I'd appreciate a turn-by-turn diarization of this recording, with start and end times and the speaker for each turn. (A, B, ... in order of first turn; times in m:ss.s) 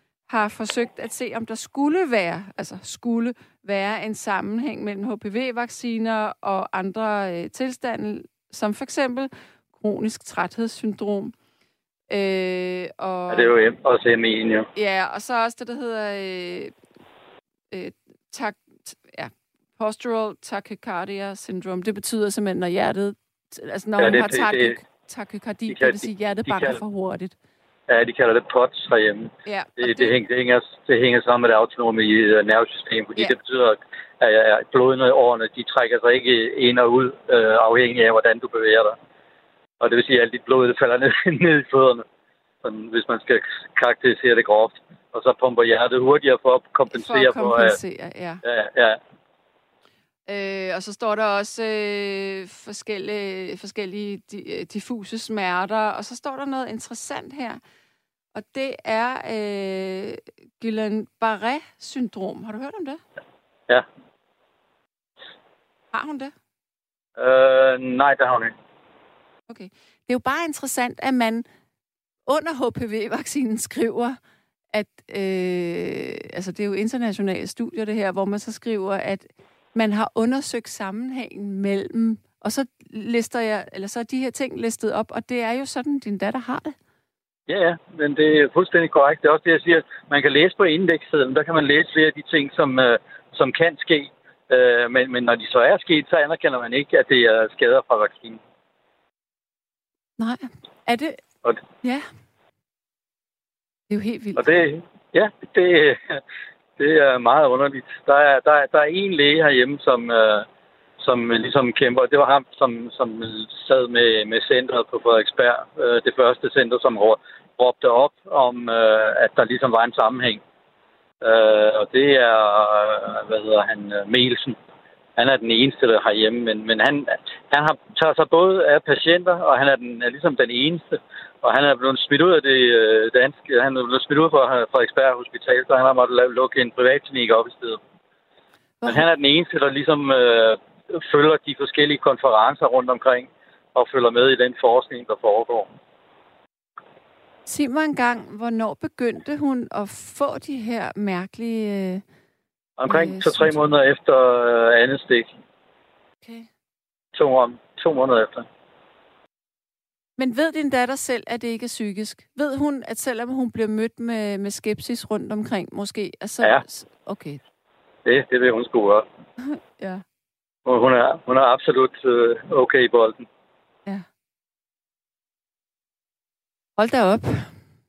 0:00.3-0:11.3 A
0:12.1-0:13.6 A
0:13.3-0:14.7 B
0:14.8-0:16.7 A
0:17.7-0:27.4 A
0:24.0-0:24.8 B
0:25.7-0:26.8 B
0:27.9-0:39.0 B
0:29.4-0:30.2 A
0:39.8-0:42.0 B
0:42.6-0:47.8 B
0:46.9-0:48.4 A
0:48.4-0:49.0 B
0:50.3-0:57.6 A
0:58.3-1:03.0 A
1:05.9-1:06.3 A
1:07.2-1:08.5 B
1:09.5-1:11.4 A
1:12.3-1:14.2 A
1:14.7-1:26.8 A
1:27.5-1:38.4 B
1:40.2-1:41.2 A
1:41.8-1:42.1 A
1:43.9-1:44.5 A
1:44.4-1:46.2 B
1:46.8-1:50.5 B
1:51.0-2:00.4 B
2:01.2-2:04.6 B
2:05.2-2:17.8 B
2:18.8-2:19.1 A
2:18.9-2:25.7 B
2:27.5-2:32.0 A
2:32.8-2:35.3 B
2:32.9-2:33.6 A
2:36.2-2:36.5 A
2:37.1-2:38.5 B
2:40.2-2:47.4 A
2:48.1-2:49.0 B
2:49.4-2:50.0 A
2:50.7-2:53.3 B
2:56.8-2:57.5 A